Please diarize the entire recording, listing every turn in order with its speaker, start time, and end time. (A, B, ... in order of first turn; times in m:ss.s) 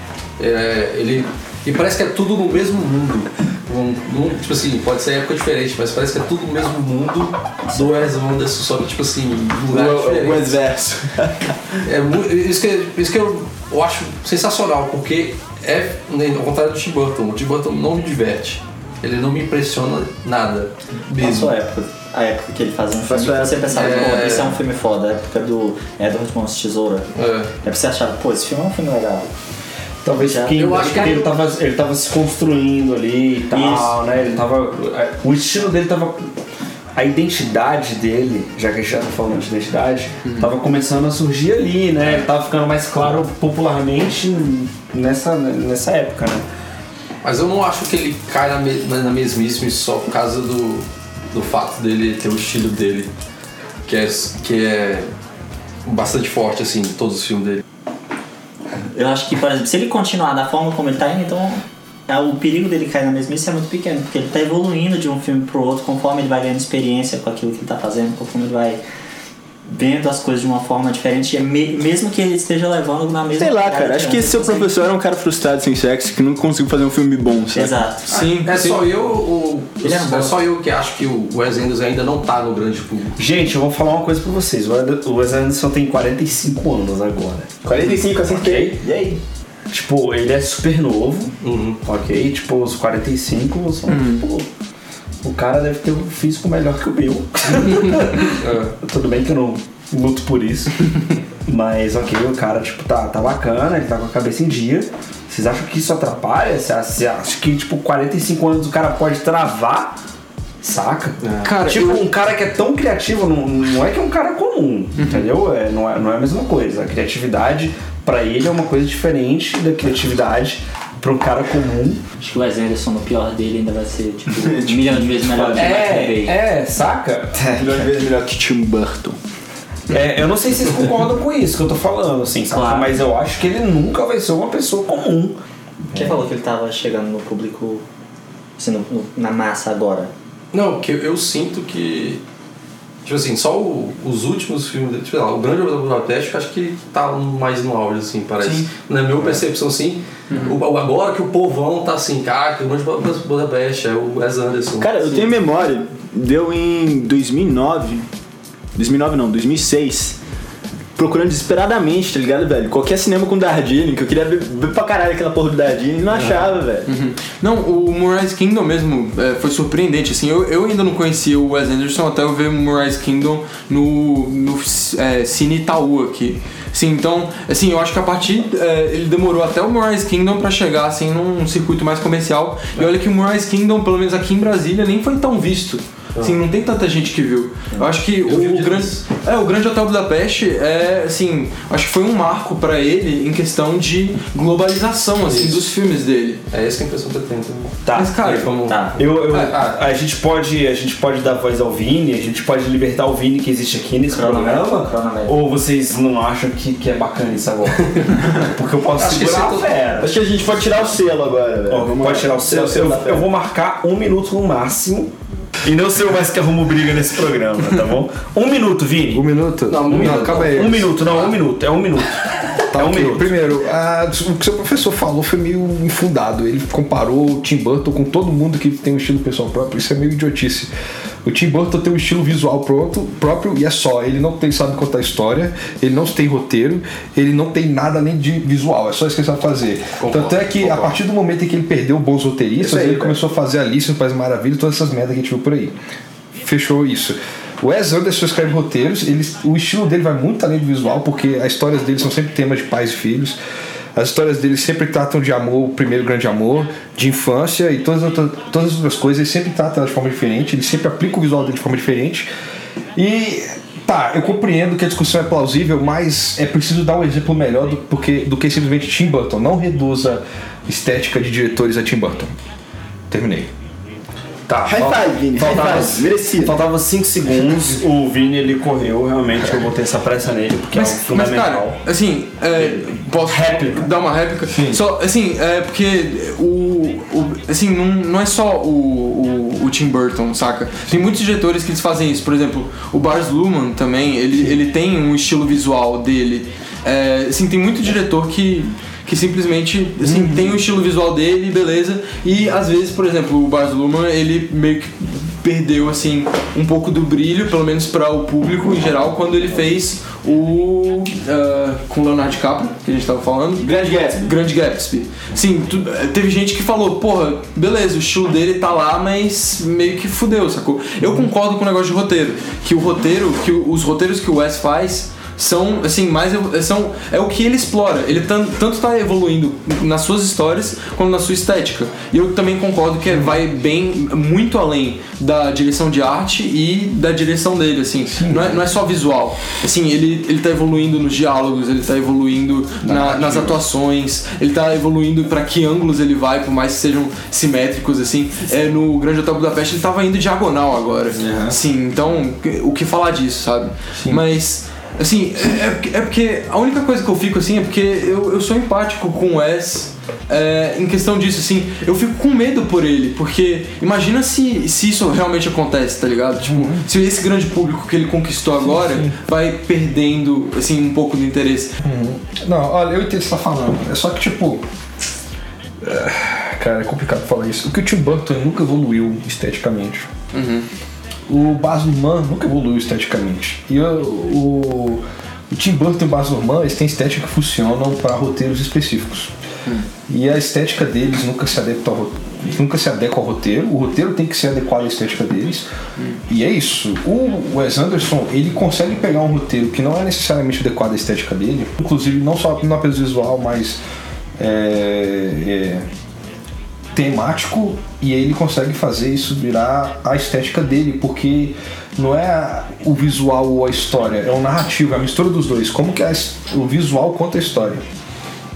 0:00.4-0:10.6 A
0:09.7-0:11.6 B
0:11.8-0:21.6 A
0:21.1-0:27.1 C
0:23.0-0:24.2 B
0:23.7-0:24.6 A
0:27.1-0:27.5 A
0:27.6-0:29.3 C
0:30.0-0:36.3 D
0:30.1-0:31.1 C
0:30.5-0:31.5 A
0:33.5-0:33.9 C
0:37.0-0:46.4 D
0:47.2-0:53.1 A
0:53.9-0:55.1 A
0:55.8-0:57.6 A
0:58.9-1:08.8 C
1:09.7-1:14.7 C
1:13.4-1:17.8 B
1:17.5-1:18.1 C
1:18.1-1:18.8 E
1:18.1-1:23.2 A
1:19.8-1:20.4 C
1:23.2-1:28.8 D
1:27.6-1:29.2 B
1:29.7-1:34.5 D
1:31.4-1:31.8 A
1:33.9-1:34.2 E
1:35.2-1:50.0 D
1:38.4-1:38.7 A
1:50.6-2:02.0 D
1:51.2-1:51.5 A
1:51.4-1:52.1 E
1:55.0-1:55.3 E
2:02.2-2:06.4 C
2:04.4-2:05.6 B
2:05.2-2:07.9 D
2:07.5-2:09.2 B
2:09.9-2:15.4 D
2:12.5-2:13.0 C
2:15.9-2:16.2 D
2:15.9-2:17.8 C
2:18.6-2:20.1 C
2:20.5-2:22.2 A
2:23.0-2:35.3 A
2:28.4-2:28.7 E
2:30.3-2:30.6 E
2:34.8-2:38.0 B
2:38.8-2:40.2 B
2:41.0-2:46.9 B
2:46.9-3:16.4 E
3:08.2-3:09.0 A
3:15.2-3:15.6 A
3:16.5-3:19.8 A
3:17.8-3:30.2 D
3:18.0-3:18.5 E
3:18.7-3:19.0 C
3:24.1-3:25.4 C
3:29.0-3:29.7 A
3:30.0-3:33.3 B
3:31.7-3:35.1 D
3:35.6-3:39.2 D
3:39.1-3:41.0 F
3:39.7-3:41.3 A
3:39.9-3:43.4 D
3:42.7-3:50.7 F
3:51.2-4:05.7 F
4:00.0-4:01.0 A
4:06.4-4:13.4 F
4:14.0-4:22.3 F
4:23.0-4:32.3 F
4:33.1-4:33.5 F
4:34.5-4:41.8 D
4:34.6-4:36.6 B
4:40.7-6:11.8 E
4:42.6-4:43.9 D
4:44.5-4:44.8 F
5:00.0-5:00.6 F
5:13.6-5:14.3 B
5:33.1-5:33.4 F
5:38.2-5:38.6 F
5:42.8-5:43.6 F
5:51.2-5:51.6 F
5:54.0-5:54.2 F
6:06.4-6:06.8 F
6:08.6-6:09.1 F
6:11.8-6:14.6 F
6:15.8-6:20.1 F
6:20.3-6:20.6 E
6:21.3-6:29.3 F
6:30.1-6:35.7 F
6:36.3-6:43.8 F
6:44.4-6:45.9 F
6:47.0-6:57.8 F